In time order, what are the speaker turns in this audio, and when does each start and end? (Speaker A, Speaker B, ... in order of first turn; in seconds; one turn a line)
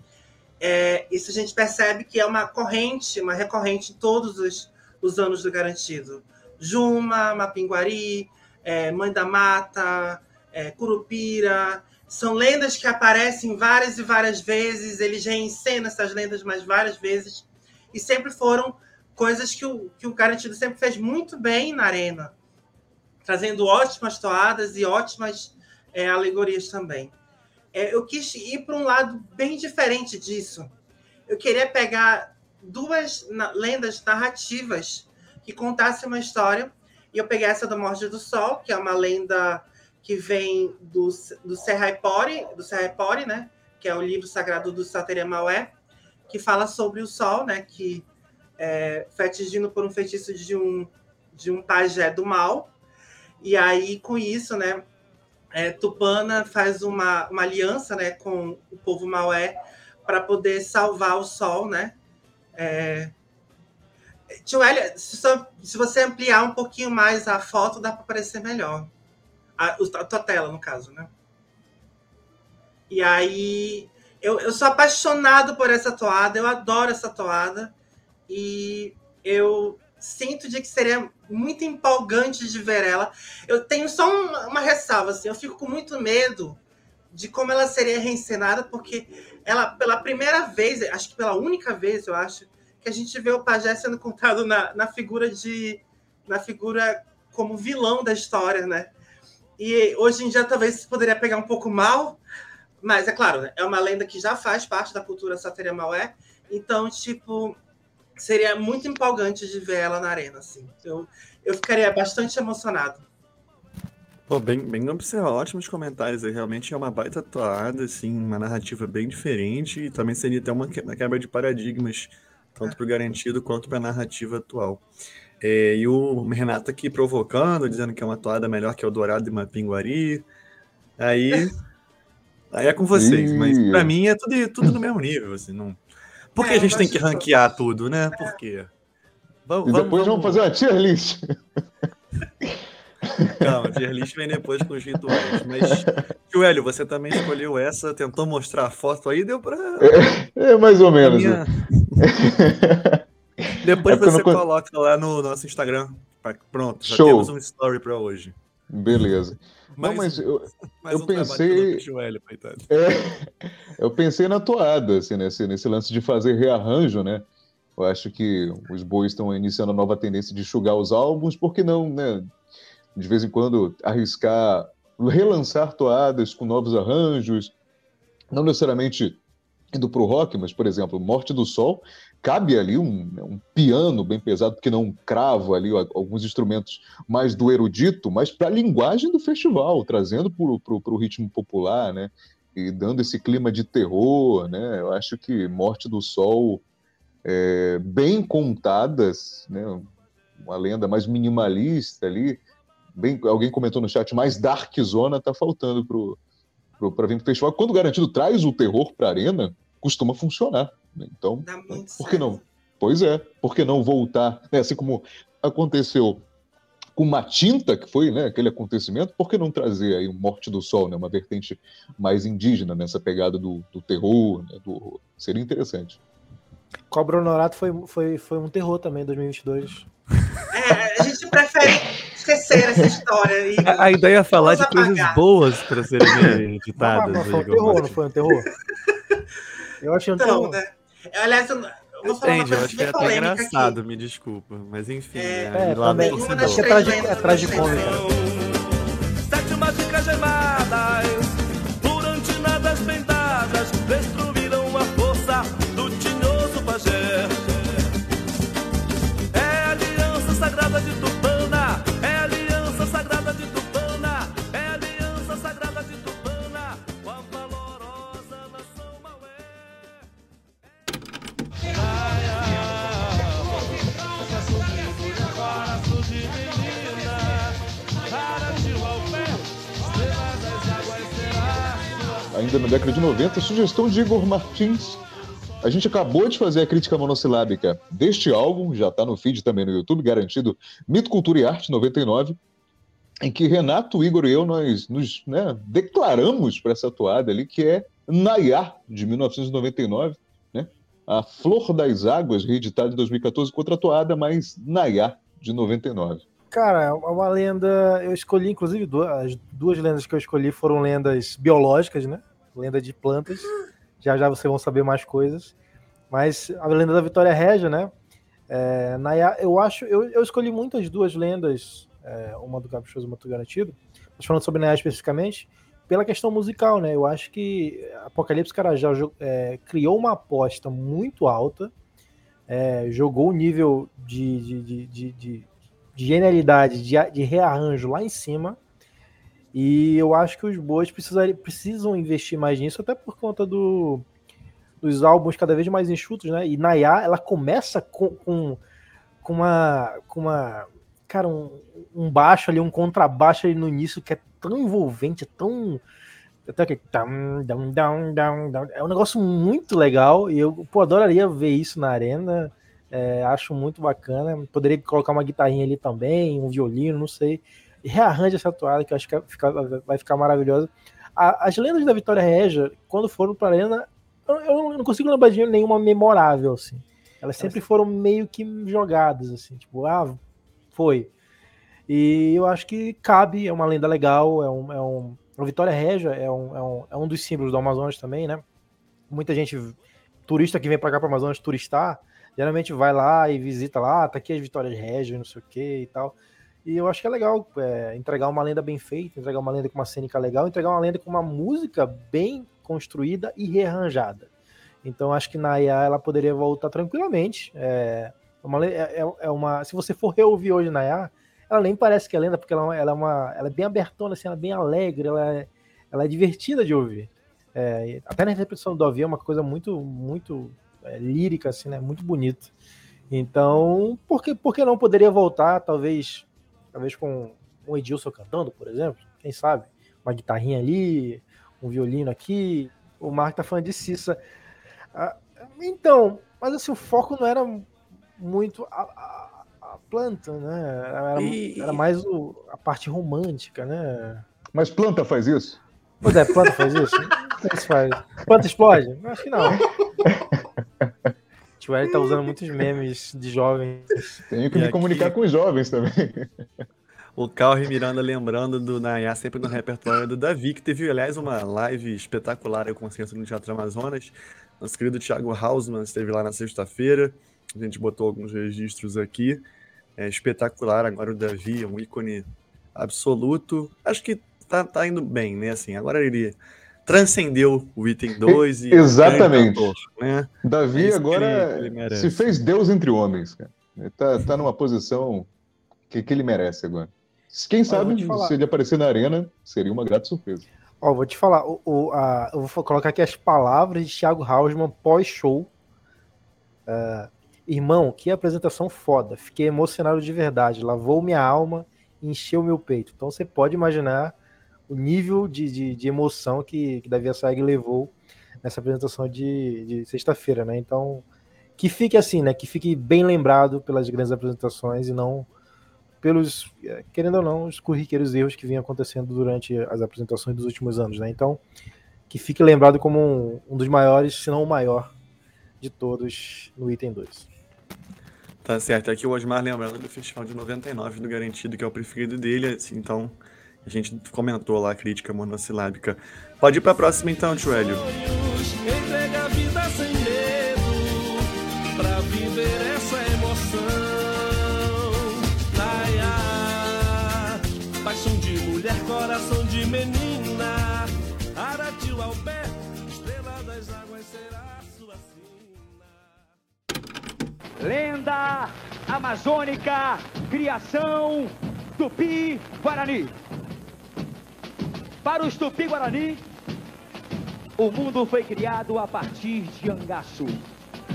Speaker A: 0.6-22.4
Speaker A: 23.2-27.1
Speaker A: 27.7-30.7
Speaker A: 31.3-45.7
Speaker A: 46.3-48.1
Speaker A: 48.6-52.7
Speaker A: 53.4-54.9
Speaker A: 55.5-62.0
Speaker A: 62.5-63.1
Speaker A: 64.4-68.9
Speaker A: 69.6-71.1
Speaker A: 72.9-77.7
Speaker A: 78.3-86.6
Speaker A: 87.1-98.9
Speaker A: 99.6-102.2
Speaker A: 102.8-107.6
Speaker A: 108.2-113.0
Speaker B: 114.3-124.8
Speaker B: 125.4-130.2
Speaker B: 131.0-131.6
Speaker B: 132.5-135.8
Speaker C: 132.9-133.9
Speaker B: 136.3-138.7
Speaker A: 136.4-137.3
Speaker B: 139.5-140.4
Speaker C: 139.7-141.4
Speaker C: 143.1-143.5
Speaker B: 143.4-150.2
Speaker C: 145.1-145.7
Speaker C: 149.8-151.4
Speaker B: 151.0-152.1
Speaker C: 152.0-154.4
Speaker B: 153.6-158.3
Speaker C: 156.8-157.3
Speaker C: 158.7-161.8
Speaker B: 159.8-160.3
Speaker B: 160.8-162.7
Speaker C: 162.7-163.2
Speaker C: 163.8-167.3
Speaker C: 167.8-172.3
Speaker C: 173.0-177.5
Speaker C: 178.3-179.2
Speaker C: 179.7-196.6
Speaker C: 197.2-202.4
Speaker C: 202.9-206.2
Speaker C: 206.8-216.2
Speaker A: 211.4-212.4
Speaker C: 217.0-226.0
Speaker D: 226.9-229.9
Speaker A: 230.5-235.2
Speaker B: 233.6-238.0
Speaker A: 236.0-236.3
Speaker D: 236.8-238.5
Speaker A: 238.9-239.2
Speaker D: 239.8-240.6
Speaker A: 240.2-243.8
Speaker B: 242.1-246.9
Speaker A: 245.2-248.1
Speaker D: 245.6-248.0
Speaker E: 247.4-257.9
Speaker E: 259.3-270.1
Speaker E: 271.6-282.3
Speaker C: 282.3-285.0
Speaker C: 285.6-292.4
Speaker C: 293.2-306.2
Speaker D: 306.5-313.5
Speaker D: 314.0-315.5
Speaker D: 316.1-317.9
Speaker D: 318.5-331.7
Speaker D: 332.5-338.6
Speaker D: 339.5-344.1
Speaker D: 344.8-348.6
Speaker D: 349.2-355.8
Speaker D: 356.5-380.2
Speaker D: 380.7-381.1
Speaker D: 381.9-388.4
Speaker D: 389.1-404.3
Speaker D: 404.8-422.5
Speaker D: 423.1-434.2
Speaker D: 434.9-444.2
Speaker B: 441.2-441.8
Speaker C: 444.5-445.6
Speaker D: 446.0-449.6
Speaker D: 451.6-454.0
Speaker C: 454.3-456.5
Speaker B: 454.5-455.1
Speaker B: 457.2-469.4
Speaker B: 470.0-482.2
Speaker C: 478.3-479.7
Speaker C: 480.4-485.3
Speaker C: 485.9-490.5
Speaker D: 487.7-488.3
Speaker D: 490.8-495.5
Speaker D: 496.7-504.1
Speaker D: 504.7-511.0
Speaker D: 511.6-515.3
Speaker D: 516.0-521.4
Speaker D: 522.1-524.9
Speaker D: 525.6-527.3
Speaker B: 528.4-537.8
Speaker E: 537.3-556.2
Speaker F: 557.6-563.2
Speaker F: 565.0-566.2
Speaker F: 567.6-570.4